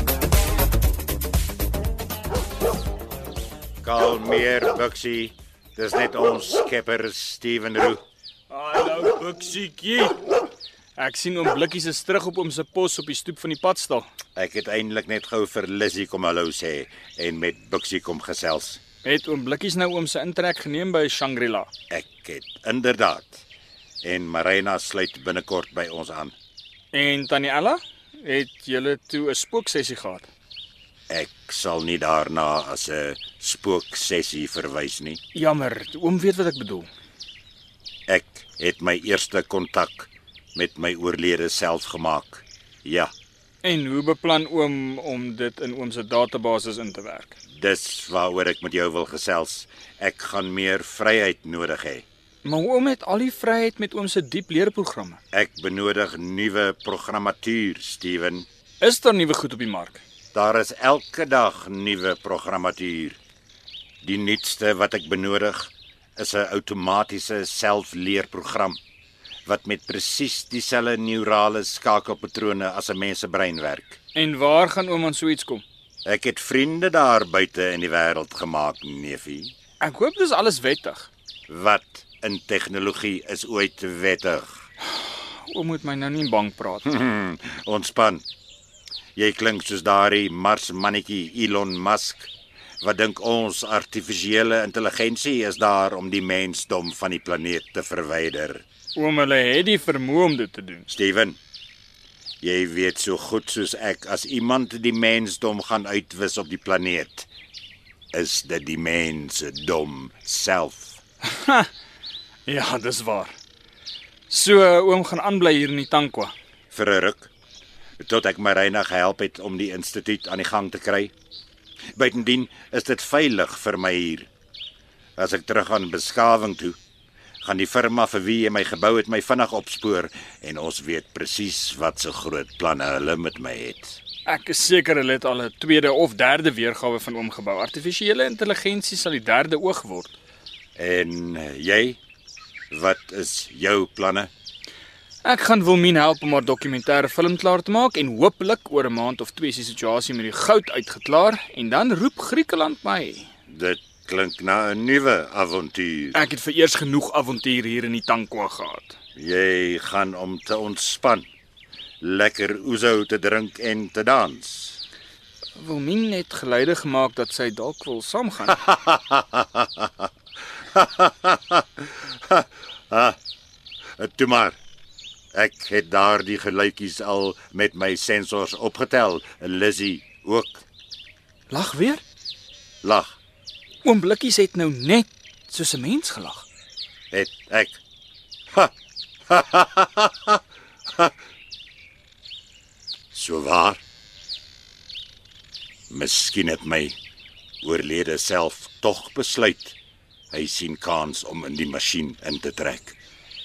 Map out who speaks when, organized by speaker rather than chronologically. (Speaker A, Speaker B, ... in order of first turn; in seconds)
Speaker A: 3.8-8.0, 14.3-18.8, 21.9-23.4, 24.0-26.3, 31.1-35.2, 38.1-43.1, 47.5-52.0, 55.3-58.5, 60.3-63.2, 64.0-68.8, 69.5-74.0, 76.0-79.5, 81.5-84.6, 86.8-88.2, 89.2-92.3, 92.8-98.6, 100.9-101.4, 102.4-107.3, 108.1-111.0, 116.7-117.3, 118.0-121.1, 122.0-124.3, 125.2-126.8, 127.4-134.0, 140.8-142.0, 142.7-144.3, 153.5-156.2, 159.2-161.3, 162.0-164.8, 168.6-170.1, 170.7-173.2, 174.0-174.6, 175.3-180.6, 182.8-183.2, 187.1-187.8, 189.3-190.4, 193.1-193.8, 195.9-197.0, 197.6-199.8, 200.3-202.9
Speaker B: 8.5-10.2, 11.0-14.1, 19.0-21.7, 26.9-30.3, 35.3-36.9, 43.6-47.3, 52.4-55.2, 58.8-60.0, 74.1-75.6, 79.8-81.1, 85.5-86.9, 98.9-100.9, 111.3-111.7, 112.5-113.3, 114.3-116.3, 134.2-140.1, 145.2-153.3, 156.1-158.9, 165.6-168.6, 181.5-182.0, 183.8-186.4